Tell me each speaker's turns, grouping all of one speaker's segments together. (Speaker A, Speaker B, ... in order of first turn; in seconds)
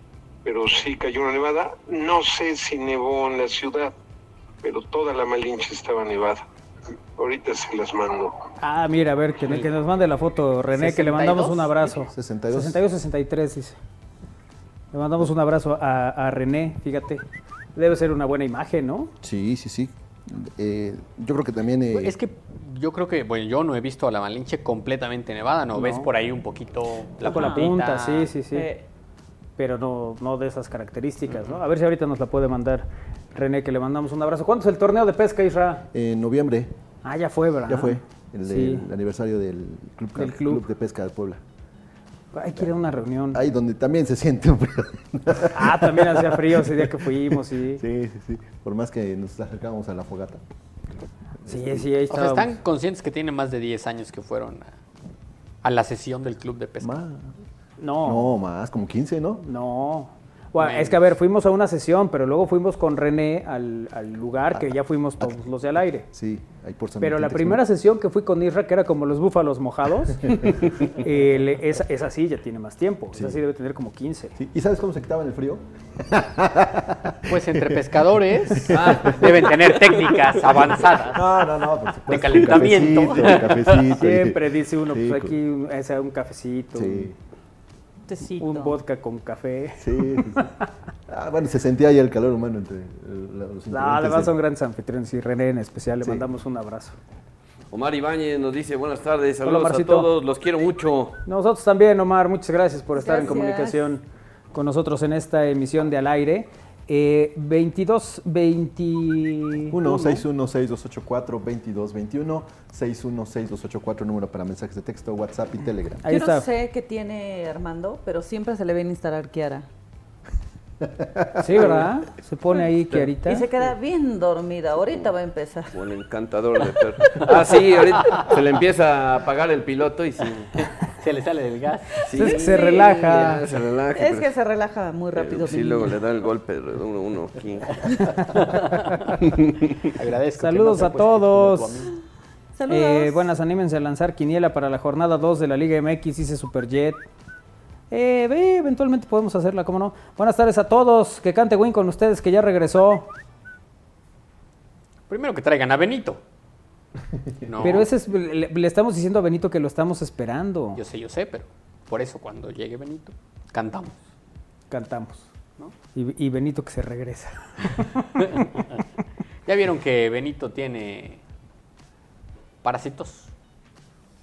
Speaker A: 0.5-3.9, 4.6-6.4, 7.2-8.4
Speaker B: 8.6-13.8, 14.9-17.2, 17.8-19.1, 25.8-26.1, 27.2-28.7, 29.6-35.9, 37.0-38.9, 40.2-40.6, 42.3-43.4, 45.5-47.8, 51.5-52.6, 57.8-58.3, 59.4-66.1, 67.0-74.4, 84.0-87.1, 88.4-90.6, 93.7-97.0, 99.4-100.1, 101.3-109.8, 116.0-116.5, 121.4-123.5, 132.1-133.4, 140.4-141.9, 142.7-147.0, 147.9-153.1, 157.6-160.8, 164.7-165.3, 165.9-168.5
Speaker C: 10.7-11.8, 21.9-28.3, 52.1-54.7, 55.6-57.0, 60.6-61.0, 77.3-81.3, 82.1-83.9, 109.9-110.2, 130.8-132.0, 138.2-139.2, 139.8-141.9, 155.1-156.2, 157.4-157.9, 160.8-164.0, 168.2-168.5, 169.5-171.2, 172.6-173.3
Speaker D: 12.1-12.8, 19.2-22.2, 35.9-36.7, 37.7-41.4, 43.3-50.4, 51.4-51.9, 56.8-57.4, 58.0-59.4, 66.1-67.6, 73.1-73.4, 74.4-77.8, 78.5-79.4, 81.0-85.4, 86.8-87.2, 89.8-90.5, 91.1-94.3, 109.7-116.0, 120.8-121.5
Speaker E: 27.2-27.7, 28.5-28.8, 88.1-88.8, 103.0-103.9, 116.1-119.7, 123.2-125.8, 132.2-133.2, 133.9-136.0, 142.6-143.2
Speaker F: 78.7-79.5, 97.7-101.2, 125.7-130.5, 132.1-134.3, 135.1-137.8